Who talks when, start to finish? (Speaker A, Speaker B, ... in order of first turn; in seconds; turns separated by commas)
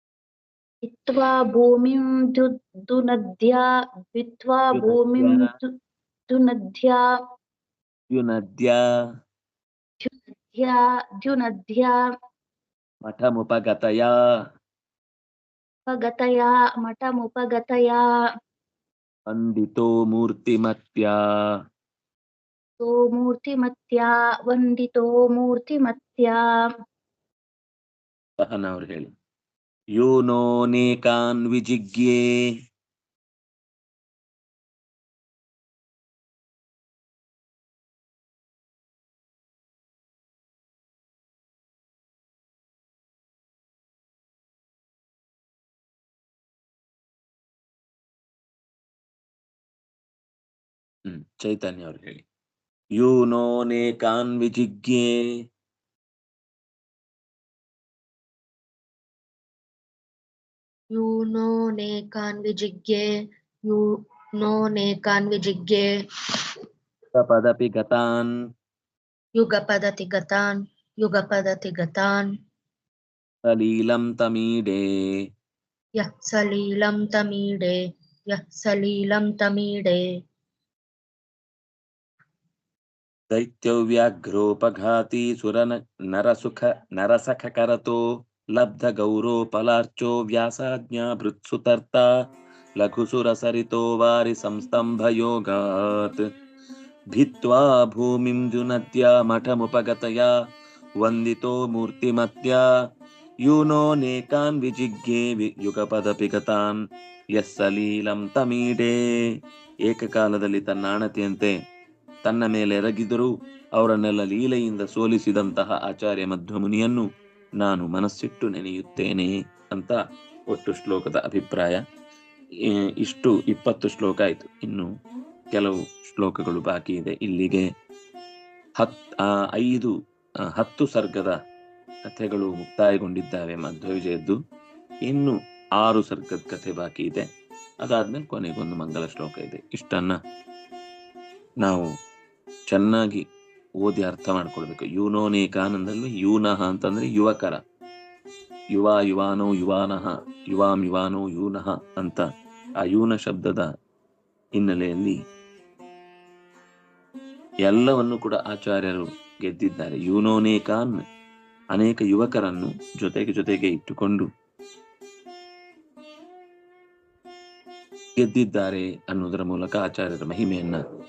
Speaker A: 0.9-5.7, Speaker B: 4.8-5.5, Speaker A: 6.3-7.0, Speaker B: 8.1-8.8, Speaker A: 10.0-11.9, Speaker B: 13.1-14.1, Speaker A: 15.9-18.0, Speaker B: 19.3-21.2, Speaker A: 22.8-26.4, Speaker B: 28.4-29.1, Speaker B: 30.0-32.2, Speaker B: 51.1-52.2, Speaker B: 53.0-55.2, Speaker C: 60.9-63.1, Speaker C: 64.4-65.9, Speaker B: 67.1-68.3, Speaker C: 69.4-72.3, Speaker B: 73.5-74.8, Speaker C: 76.0-80.1, Speaker B: 83.3-88.0, Speaker B: 88.5-92.1, Speaker B: 92.8-96.2, Speaker B: 97.1-100.3, Speaker B: 101.0-102.6, Speaker B: 103.5-106.8, Speaker B: 107.4-109.0, Speaker B: 109.9-111.5, Speaker B: 112.2-117.1, Speaker B: 117.6-120.0, Speaker B: 120.5-121.8, Speaker B: 122.7-124.9, Speaker B: 125.5-127.7, Speaker B: 128.8-129.9, Speaker B: 130.6-131.4, Speaker B: 132.0-134.4, Speaker B: 135.0-137.3, Speaker B: 137.8-140.2, Speaker B: 141.6-141.9, Speaker B: 142.7-143.2, Speaker B: 143.8-147.6, Speaker B: 148.7-152.3, Speaker B: 152.8-153.7, Speaker B: 154.6-155.2, Speaker B: 157.6-161.0, Speaker B: 161.7-164.3, Speaker B: 168.2-170.8